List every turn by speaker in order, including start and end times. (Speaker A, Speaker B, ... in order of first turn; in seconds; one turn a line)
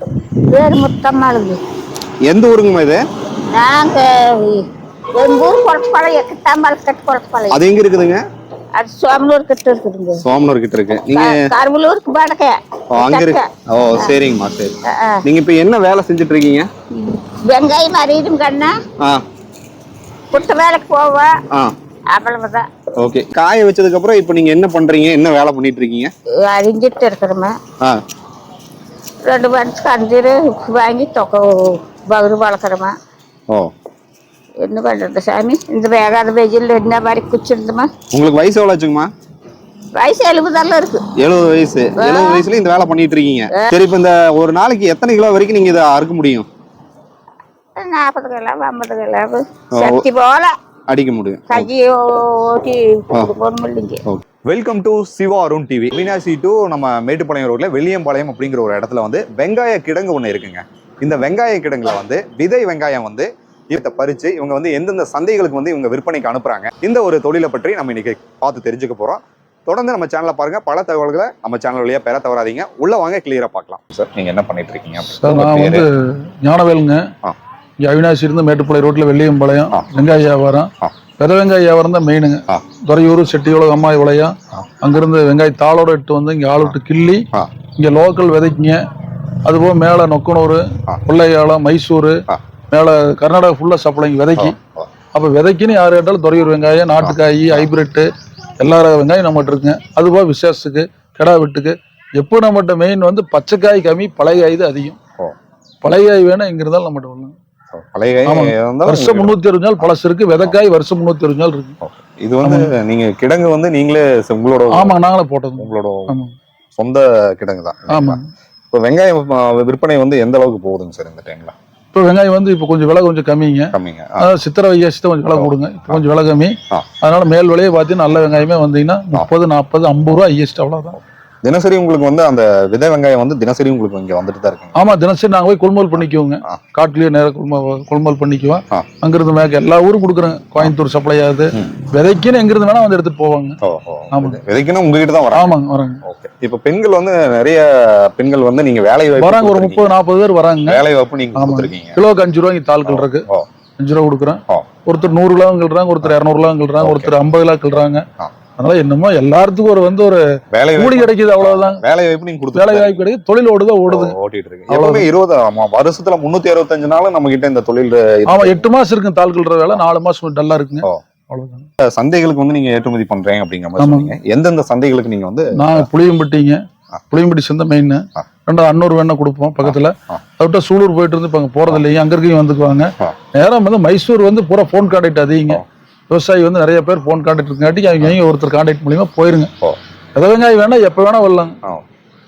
Speaker A: 0.5-1.6
Speaker B: 2.2-3.0
Speaker A: 3.5-7.6
Speaker B: 7.5-8.2
Speaker A: 8.8-10.2
Speaker B: 10.2-11.5
Speaker A: 11.1-14.1
Speaker B: 12.9-16.7
Speaker A: 14.9-15.2
Speaker A: 16.9-18.8
Speaker A: 20.3-21.4
Speaker A: 22.1-22.7
Speaker B: 23.0-26.1
Speaker A: 26.4-27.6
Speaker A: 29.2-33.0
Speaker A: 34.6-37.9
Speaker B: 38.1-39.1
Speaker A: 39.9-41.1
Speaker B: 41.1-46.5
Speaker A: 42.0-42.5
Speaker A: 47.8-50.6
Speaker B: 49.7-50.0
Speaker B: 50.9-51.7
Speaker A: 51.5-54.0
Speaker B: 54.1-75.9
Speaker C: 75.1-77.1
Speaker C: 77.8-88.8
Speaker C: 89.5-94.6
Speaker B: 94.4-94.9
Speaker C: 95.1-98.1
Speaker B: 97.0-97.7
Speaker C: 98.6-105.0
Speaker C: 105.8-107.3
Speaker B: 107.7-109.9
Speaker C: 108.3-111.8
Speaker B: 111.8-115.0
Speaker C: 112.4-112.7
Speaker C: 114.7-116.3
Speaker B: 115.6-116.2
Speaker B: 116.8-118.2
Speaker C: 117.9-118.2
Speaker B: 118.7-121.5
Speaker C: 121.9-131.0
Speaker B: 123.7-124.3
Speaker B: 125.3-126.0
Speaker B: 131.4-134.8
Speaker C: 134.8-143.6
Speaker B: 143.6-150.0
Speaker C: 144.1-144.4
Speaker C: 145.3-146.0
Speaker C: 149.2-150.8
Speaker B: 150.7-152.0
Speaker C: 151.3-153.3
Speaker B: 152.8-153.5
Speaker C: 153.8-158.1
Speaker B: 156.8-157.1
Speaker C: 158.6-160.2
Speaker B: 160.5-163.1
Speaker C: 160.8-161.8
Speaker C: 162.5-164.2
Speaker B: 163.9-168.7
Speaker C: 164.7-165.1
Speaker C: 168.3-171.7
Speaker B: 171.8-175.9
Speaker C: 173.8-174.2
Speaker C: 175.5-189.5
Speaker B: 179.6-180.2
Speaker C: 190.2-191.6